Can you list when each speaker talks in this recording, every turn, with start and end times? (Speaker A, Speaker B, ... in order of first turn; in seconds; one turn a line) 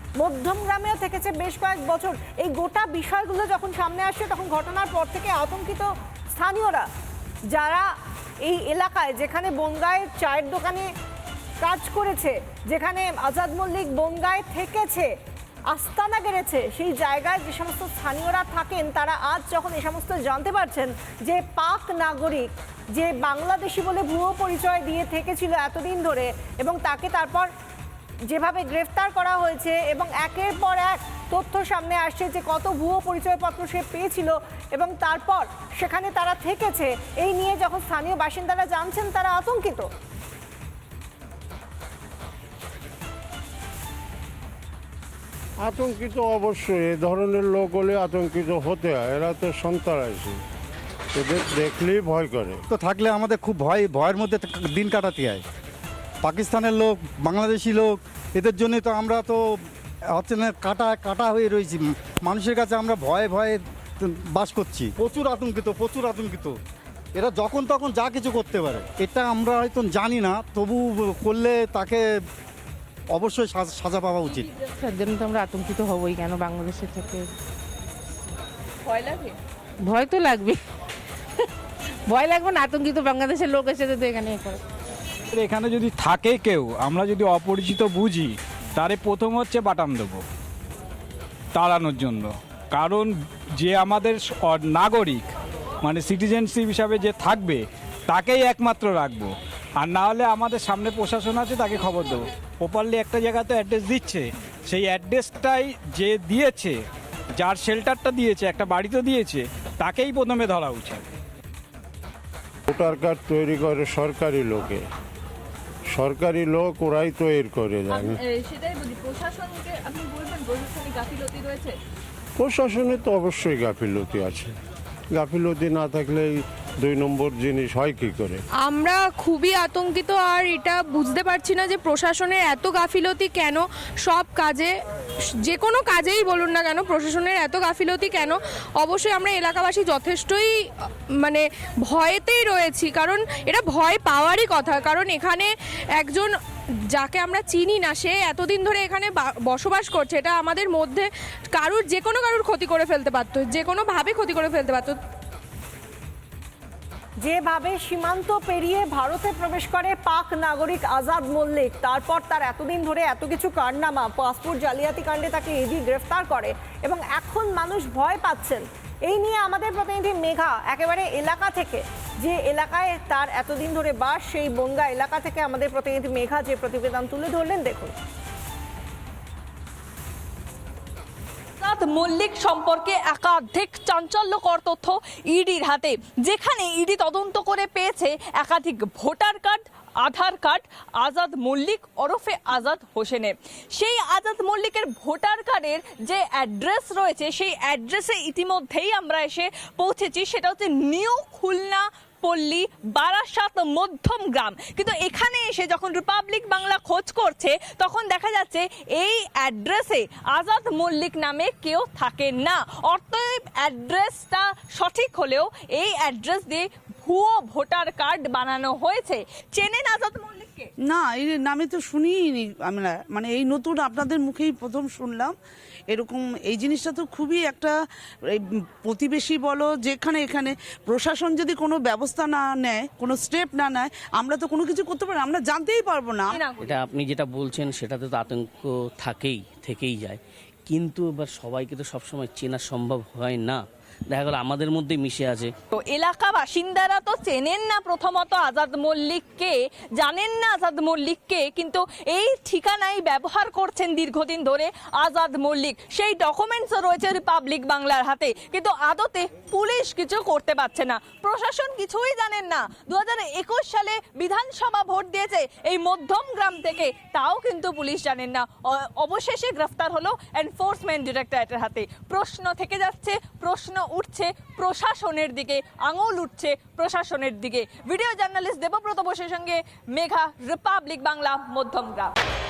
Speaker A: 0.2-6.9
Speaker A: 7.5-7.9
Speaker A: 8.4-10.9
Speaker A: 11.6-15.1
Speaker A: 15.7-27.5
Speaker A: 28.3-39.9
Speaker B: 45.6-50.4
Speaker B: 51.1-52.6
Speaker C: 52.7-55.4
Speaker C: 56.2-59.4
Speaker C: 60.1-66.5
Speaker C: 67.1-72.0
Speaker C: 73.1-74.5
Speaker D: 74.8-77.3
Speaker E: 79.0-79.3
Speaker D: 79.8-80.6
Speaker D: 82.1-84.6
Speaker F: 85.3-90.2
Speaker F: 91.5-95.2
Speaker F: 95.8-106.7
Speaker F: 107.4-111.0
Speaker B: 112.7-114.8
Speaker B: 115.9-118.2
Speaker E: 117.9-121.8
Speaker B: 122.4-124.5
Speaker B: 125.1-128.4
Speaker G: 128.6-134.7
Speaker G: 135.4-140.5
Speaker G: 141.2-146.3
Speaker G: 146.9-155.0
Speaker A: 157.2-177.9
Speaker E: 181.6-220.7
Speaker H: 220.8-225.3
Speaker H: 225.9-236.4
Speaker E: 236.3-236.8
Speaker I: 236.6-245.5
Speaker E: 245.7-282.1